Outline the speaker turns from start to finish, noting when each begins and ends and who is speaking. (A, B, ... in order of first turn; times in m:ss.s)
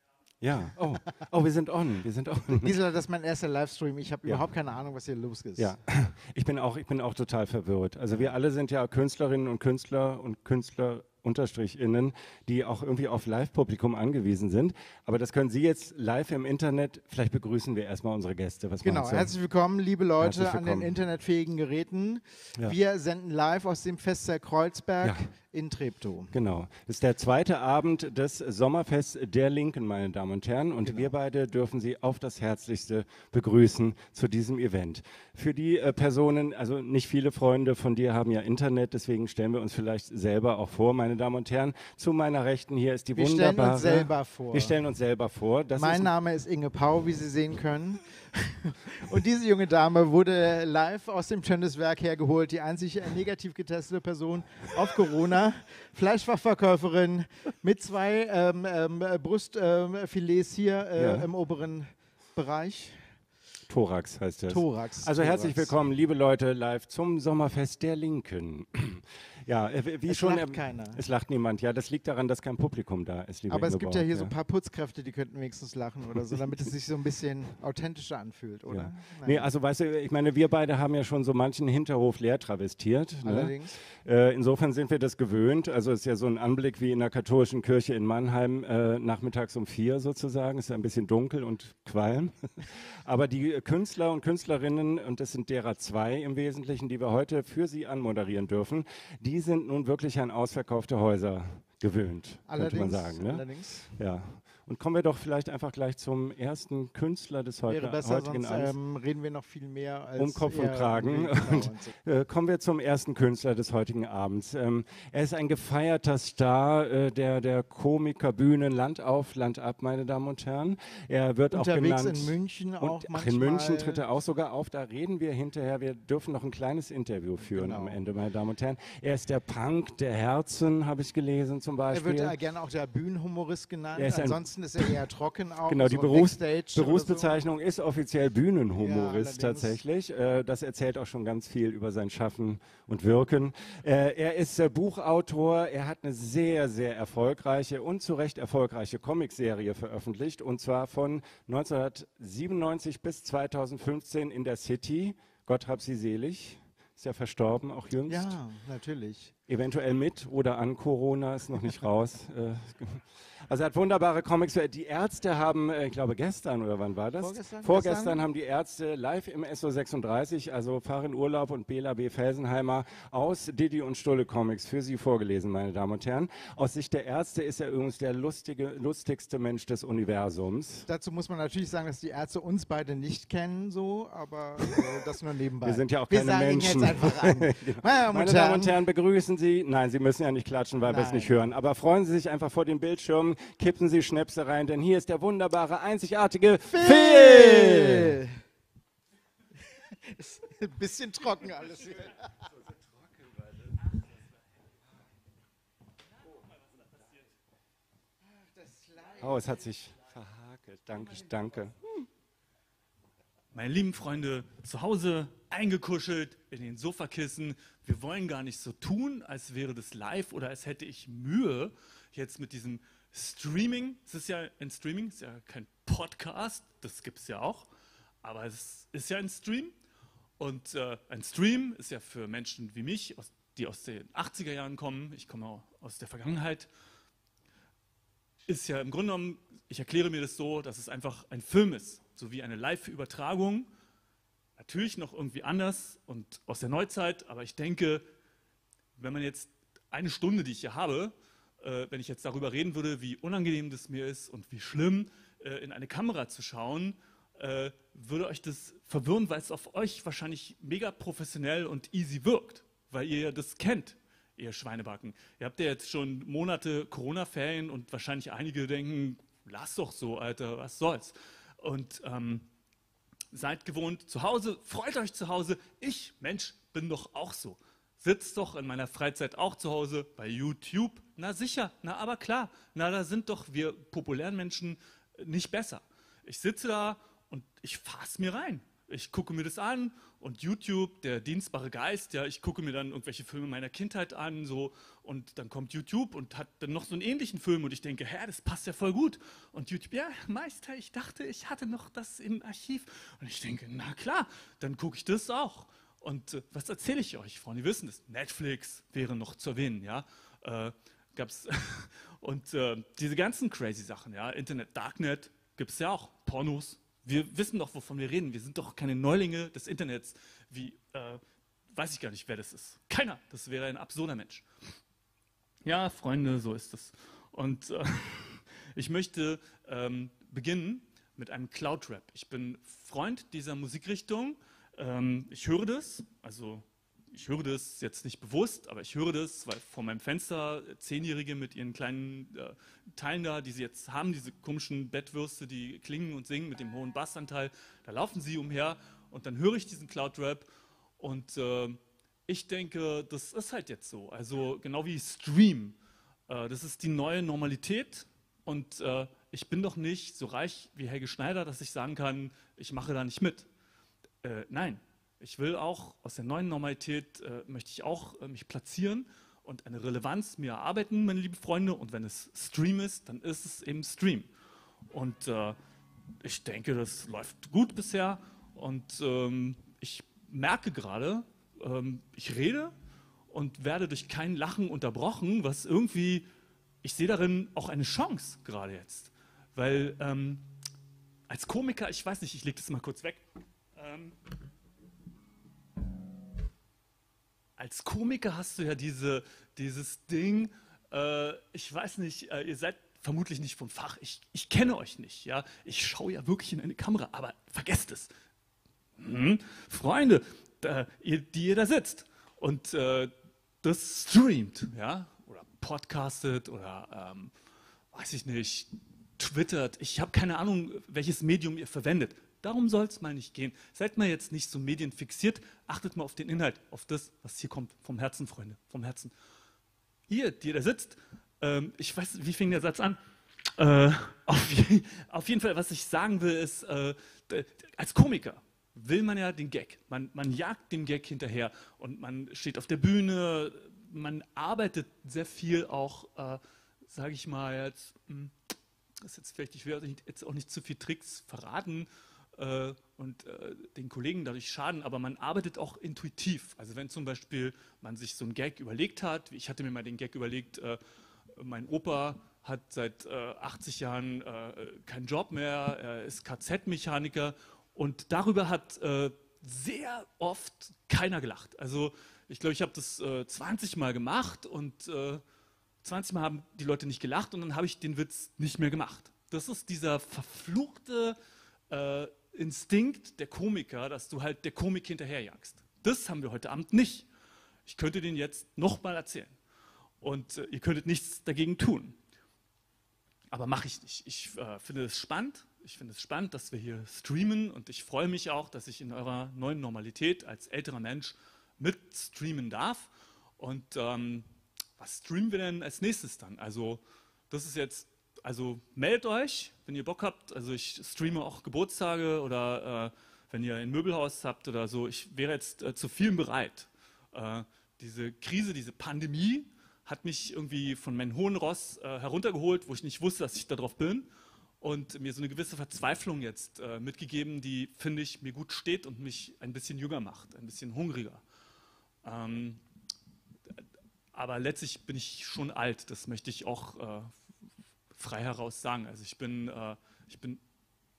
0:00.4-0:02.7 A
0:02.5-0:05.7 B
0:05.6-0:19.3 A
0:18.8-0:26.3 B
0:20.2-0:20.9 A
0:25.0-0:25.3 A
0:26.3-0:46.1 A
0:30.8-0:31.1 B
0:43.2-0:44.8 B
0:45.8-1:03.0 B
1:00.9-1:01.3 A
1:03.7-1:14.3 A
1:04.5-1:05.7 B
1:10.1-1:11.0 B
1:13.5-1:19.5 B
1:18.7-1:43.4 A
1:23.2-1:23.8 B
1:42.5-1:43.9 B
1:44.0-1:48.8 A
1:47.7-1:51.9 B
1:50.2-2:12.4 A
2:01.5-2:04.0 B
2:07.4-2:08.0 B
2:11.9-2:17.3 B
2:13.9-2:14.9 A
2:15.7-2:38.4 A
2:18.7-2:19.8 B
2:38.1-2:39.3 B
2:39.5-3:00.9 A
2:47.2-2:48.2 B
3:00.9-3:08.8 B
3:05.6-3:18.2 A
3:10.9-3:11.3 B
3:16.7-3:18.3 B
3:20.0-3:22.4 B
3:28.3-3:29.6 B
3:29.2-3:32.1 A
3:33.5-3:47.7 C
3:48.2-3:49.7 C
3:50.4-3:56.7 C
3:58.5-4:03.7 C
4:04.6-4:08.0 C
4:09.0-4:32.4 C
4:33.3-5:21.2 C
5:21.7-5:24.4 C
5:25.6-6:03.5 C
6:04.2-6:14.3 C
6:14.9-6:15.6 C
6:16.2-6:22.7 C
6:23.3-6:26.3 C
6:26.8-6:30.4 C
6:31.3-6:34.2 C
6:37.6-6:48.1 C
6:49.0-6:53.1 C
6:53.6-6:57.3 C
6:57.9-7:09.1 C
7:10.1-7:13.0 C
7:13.5-7:28.3 C
7:29.0-7:40.8 C
7:41.4-7:55.2 C
7:55.8-8:01.2 C
8:01.7-8:07.1 C
8:07.6-8:09.3 C
8:10.0-8:12.0 C
8:13.3-8:24.3 C
8:24.8-8:44.1 C
8:44.6-8:51.2 C
8:52.0-8:52.6 C
8:54.1-8:57.1 C
8:57.9-9:00.4 C